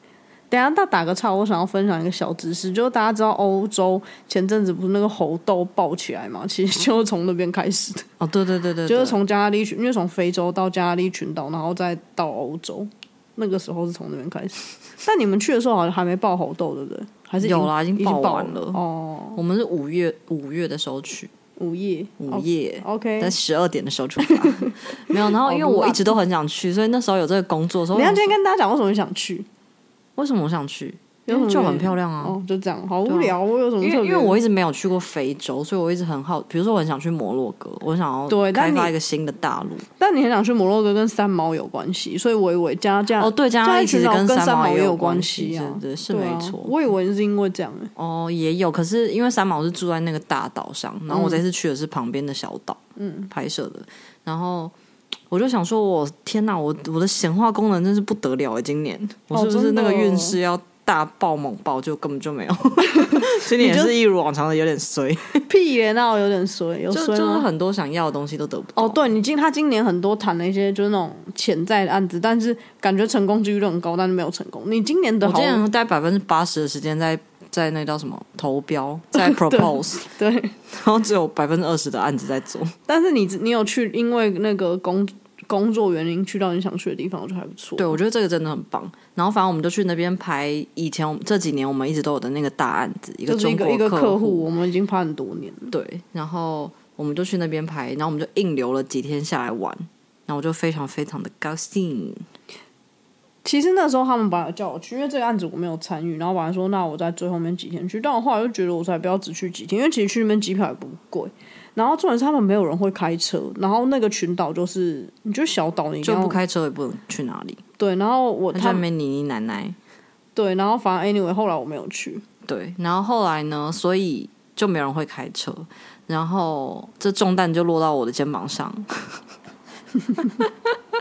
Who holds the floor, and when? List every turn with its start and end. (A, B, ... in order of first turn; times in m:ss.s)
0:00.5-0:08.1 A
0:08.2-0:09.2 B
0:08.9-0:19.4 A
0:17.4-0:18.8 B
0:19.4-0:21.3 B
0:21.6-0:23.3 A
0:22.2-0:28.3 B
0:24.3-0:26.2 A
0:27.9-0:29.5 A
0:30.2-0:32.4 B
0:31.3-0:34.4 A
0:33.1-0:39.9 B
0:38.3-0:38.9 A
0:40.0-0:47.9 A
0:43.2-0:46.7 B
0:48.0-0:54.7 B
0:51.1-0:51.4 A
0:53.0-0:53.3 A
0:55.3-1:05.4 B
0:59.3-1:00.4 A
1:03.1-1:03.9 A
1:05.5-1:07.5 A
1:06.9-1:09.0 B
1:08.8-1:15.6 A
1:15.2-1:20.0 B
1:19.2-1:20.6 A
1:20.7-1:22.8 B
1:22.9-1:28.0 A
1:27.8-1:34.5 B
1:33.3-1:35.7 A
1:35.7-1:42.2 B
1:43.4-1:56.4 A
1:56.0-1:57.6 B
1:57.8-1:58.8 A
1:58.5-1:59.8 B
2:00.4-2:02.2 A
2:02.5-2:09.2 B
2:10.2-2:10.7 B